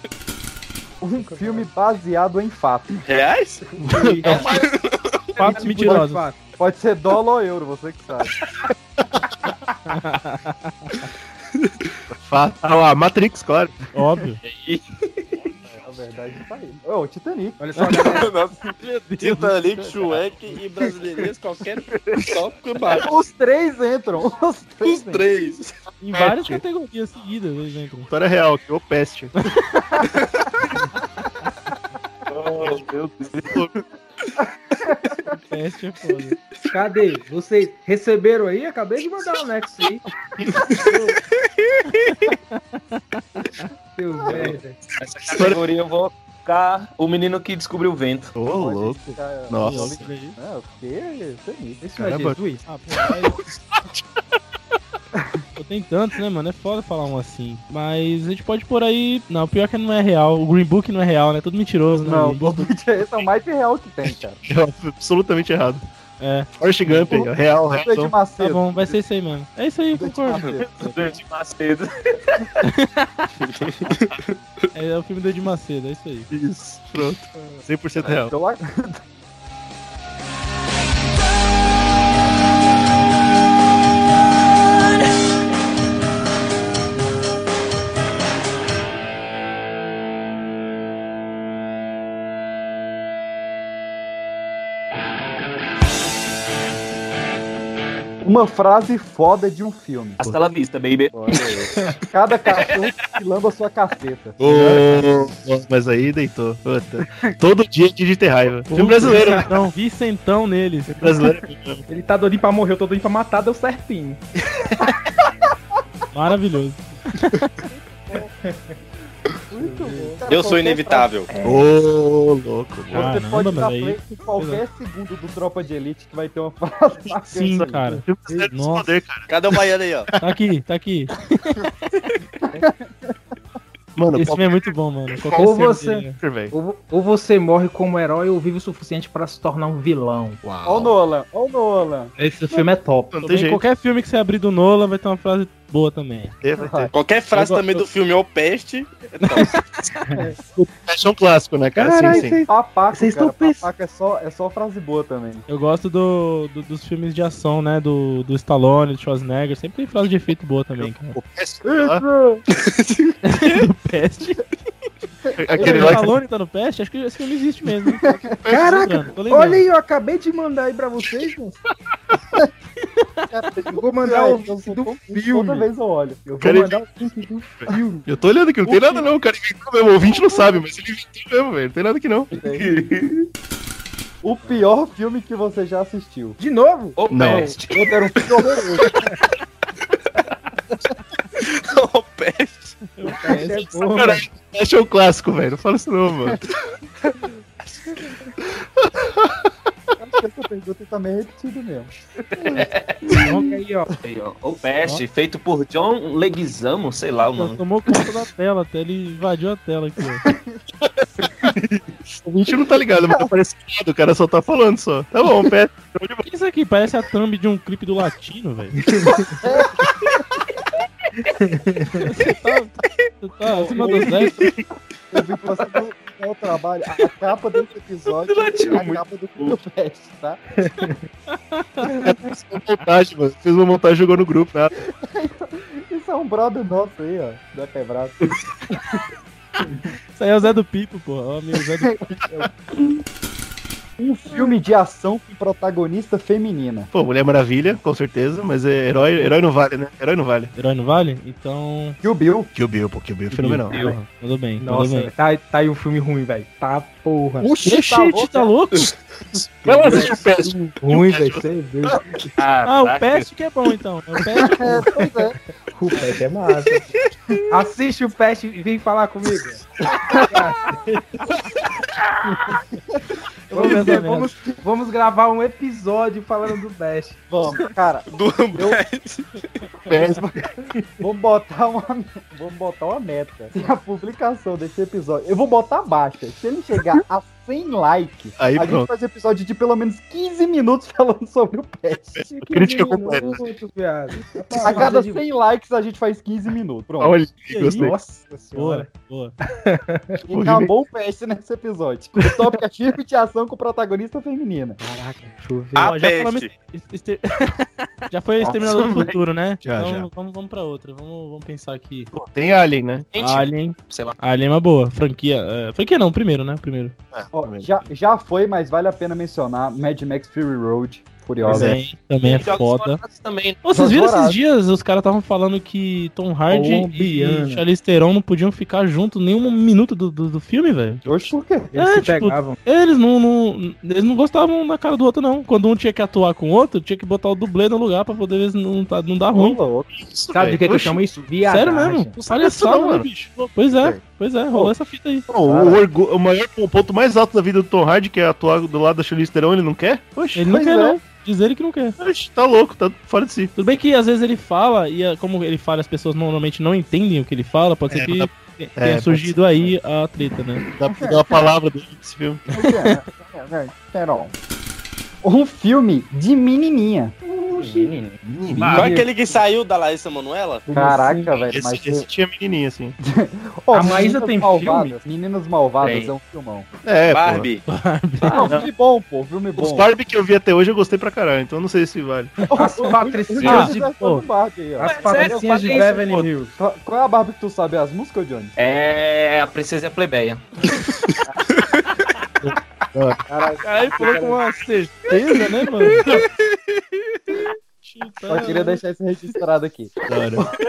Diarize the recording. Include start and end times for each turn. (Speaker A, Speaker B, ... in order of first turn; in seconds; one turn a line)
Speaker A: 1.0-3.0
Speaker B: 1.2-1.7
Speaker C: 3.0-3.6
Speaker B: 3.7-4.7
Speaker D: 3.8-4.5
Speaker C: 4.4-5.3
Speaker B: 5.3-6.4
Speaker E: 5.4-6.2
Speaker A: 5.5-8.4
Speaker E: 9.9-11.1
Speaker D: 12.1-13.8
Speaker E: 13.9-14.4
Speaker F: 14.4-14.8
Speaker A: 15.7-17.6
Speaker B: 17.6-18.3
Speaker C: 18.0-23.1
Speaker E: 18.8-19.9
Speaker A: 22.9-25.2
Speaker C: 24.8-25.7
Speaker E: 26.0-28.1
Speaker D: 26.1-26.6
Speaker D: 28.1-29.3
Speaker F: 32.3-33.6
Speaker D: 33.5-33.7
Speaker A: 34.9-35.3
Speaker E: 35.4-36.4
Speaker B: 36.7-40.0
Speaker C: 40.7-42.0
Speaker E: 42.0-43.7
Speaker B: 44.0-44.8
Speaker F: 44.3-48.3
Speaker D: 45.0-45.6
Speaker D: 48.4-50.1
Speaker A: 48.5-51.8
Speaker E: 49.6-50.4
Speaker B: 51.8-52.6
Speaker D: 52.0-52.4
Speaker E: 52.6-53.4
Speaker D: 53.5-54.0
Speaker A: 55.1-55.4
Speaker E: 55.5-62.7
Speaker A: 62.0-64.4
Speaker D: 64.4-65.8
Speaker E: 66.2-67.2
Speaker D: 66.5-68.1
Speaker A: 67.1-69.0
Speaker E: 68.4-71.0
Speaker A: 69.9-70.7
Speaker F: 70.6-72.5
Speaker E: 72.6-73.2
Speaker C: 73.4-74.3
Speaker E: 74.7-76.3
Speaker D: 76.3-78.3
Speaker A: 78.3-79.0
Speaker A: 98.2-100.2
Speaker F: 100.2-101.5
Speaker A: 101.1-105.3
Speaker F: 102.5-102.9
Speaker D: 104.4-109.5
Speaker E: 108.7-111.1
Speaker D: 110.9-111.8
Speaker B: 111.9-114.2
Speaker E: 116.1-117.6
Speaker B: 118.4-118.8
Speaker A: 119.5-121.1
Speaker B: 119.5-120.2
Speaker C: 120.2-121.3
Speaker B: 121.3-121.7
Speaker D: 121.4-123.1
Speaker A: 122.9-127.8
Speaker E: 122.9-124.6
Speaker E: 127.3-128.9
Speaker B: 127.8-128.5
Speaker D: 128.0-129.6
Speaker C: 129.3-130.1
Speaker E: 130.2-131.6
Speaker A: 132.6-133.1
Speaker D: 133.9-134.7
Speaker E: 134.1-136.2
Speaker B: 135.3-140.4
Speaker D: 136.1-136.5
Speaker A: 140.6-142.7
Speaker B: 142.2-143.1
Speaker D: 143.1-143.6
Speaker E: 143.2-146.3
Speaker D: 146.4-146.9
Speaker A: 146.6-146.9
Speaker C: 146.9-149.6
Speaker E: 147.3-147.8
Speaker E: 149.2-149.6
Speaker B: 150.1-150.3
Speaker D: 150.5-152.4
Speaker B: 151.8-153.7
Speaker A: 152.0-155.4
Speaker E: 155.5-161.2
Speaker D: 160.8-162.0
Speaker A: 161.6-162.4
Speaker C: 162.5-163.6
Speaker E: 163.2-164.4
Speaker A: 165.3-166.1
Speaker D: 165.4-166.2
Speaker E: 165.6-169.6
Speaker D: 168.4-168.9
Speaker B: 168.5-171.6
Speaker A: 173.3-176.2
Speaker B: 173.7-175.7
Speaker B: 176.2-178.1
Speaker D: 176.4-177.0
Speaker D: 177.6-182.3
Speaker B: 178.6-179.1
Speaker A: 182.3-182.7
Speaker F: 182.3-183.3
Speaker A: 184.2-186.4
Speaker B: 186.4-187.5
Speaker F: 187.0-188.1
Speaker D: 187.1-187.6
Speaker A: 187.7-189.0
Speaker C: 191.4-192.8
Speaker E: 193.0-193.7
Speaker B: 193.2-194.3
Speaker D: 193.8-196.4
Speaker D: 198.9-199.3
Speaker A: 200.0-201.9
Speaker F: 202.5-202.9
Speaker E: 203.2-203.4
Speaker B: 203.2-203.9
Speaker F: 204.0-207.6
Speaker E: 207.3-210.3
Speaker A: 210.3-210.6
Speaker D: 212.2-216.2
Speaker E: 216.2-218.8
Speaker B: 218.8-219.4
Speaker A: 219.4-219.9
Speaker B: 221.3-222.1
Speaker E: 222.0-224.5
Speaker A: 223.5-224.3
Speaker A: 225.1-230.4
Speaker F: 228.2-229.6
Speaker B: 230.6-231.0
Speaker E: 231.3-231.9
Speaker D: 231.9-234.7
Speaker A: 235.0-238.8
Speaker E: 240.1-242.0
Speaker A: 241.9-242.5
Speaker A: 244.0-246.9
Speaker D: 246.9-250.5
Speaker E: 250.5-252.0
Speaker A: 252.0-252.5
Speaker D: 252.5-253.8
Speaker E: 253.3-255.1
Speaker F: 253.7-253.9
Speaker B: 254.6-258.1
Speaker D: 257.4-258.1
Speaker E: 257.6-258.9
Speaker A: 257.9-258.5
Speaker D: 259.4-261.9
Speaker B: 259.6-262.3
Speaker F: 262.4-263.3
Speaker E: 262.6-264.9
Speaker A: 264.4-265.4
Speaker B: 265.7-266.9
Speaker B: 267.5-269.6
Speaker B: 270.2-271.0
Speaker E: 273.5-274.3
Speaker B: 273.5-277.2
Speaker A: 277.3-278.8
Speaker C: 278.1-279.4
Speaker D: 279.9-280.3
Speaker A: 280.0-280.5
Speaker A: 281.0-292.2
Speaker D: 288.4-288.9
Speaker D: 292.1-293.4
Speaker B: 292.3-295.2
Speaker A: 294.6-297.2
Speaker D: 297.0-298.0
Speaker E: 297.5-297.9
Speaker B: 297.7-298.9
Speaker E: 298.5-299.3
Speaker B: 299.5-300.2
Speaker A: 300.2-304.8
Speaker D: 300.3-300.7
Speaker B: 304.8-305.9
Speaker C: 305.7-306.5
Speaker E: 305.8-312.1
Speaker D: 309.6-310.1
Speaker D: 312.1-313.4
Speaker F: 313.1-314.1
Speaker E: 313.2-316.9
Speaker D: 317.1-317.7
Speaker A: 317.3-321.8
Speaker D: 321.4-321.8
Speaker E: 321.4-323.0
Speaker F: 322.2-323.6
Speaker E: 323.6-331.0
Speaker A: 323.7-324.4
Speaker B: 326.5-327.6
Speaker A: 331.1-331.7
Speaker B: 331.7-332.6
Speaker E: 331.7-339.6
Speaker A: 339.3-339.9
Speaker D: 339.9-341.0
Speaker B: 340.3-342.1
Speaker E: 341.4-345.2
Speaker D: 342.2-343.1
Speaker D: 345.3-350.4
Speaker A: 345.4-345.8
Speaker E: 350.3-352.0
Speaker A: 350.4-351.0
Speaker D: 352.0-353.5
Speaker E: 353.6-360.6
Speaker D: 357.9-359.7
Speaker D: 360.7-362.4
Speaker A: 360.9-361.2
Speaker A: 362.5-364.3
Speaker E: 362.6-362.9
Speaker A: 365.2-367.1
Speaker B: 367.3-367.9
Speaker F: 367.5-369.0
Speaker D: 368.2-368.8
Speaker B: 368.6-369.1
Speaker C: 368.7-370.7
Speaker B: 370.7-371.3
Speaker A: 370.7-372.1
Speaker D: 371.3-372.9
Speaker A: 373.0-376.7
Speaker B: 373.7-374.9
Speaker F: 375.8-376.1
Speaker D: 376.8-377.5
Speaker C: 377.1-377.6
Speaker E: 377.7-378.5
Speaker A: 378.2-379.9
Speaker D: 379.6-382.4
Speaker B: 382.4-383.8
Speaker A: 382.5-385.9
Speaker E: 383.4-384.2
Speaker B: 384.8-386.5
Speaker F: 384.8-386.3
Speaker A: 386.6-388.5
Speaker F: 388.6-390.4
Speaker D: 392.4-393.2
Speaker E: 393.6-396.0
Speaker C: 396.1-397.1
Speaker E: 397.8-398.8
Speaker A: 398.3-400.5
Speaker D: 400.1-400.4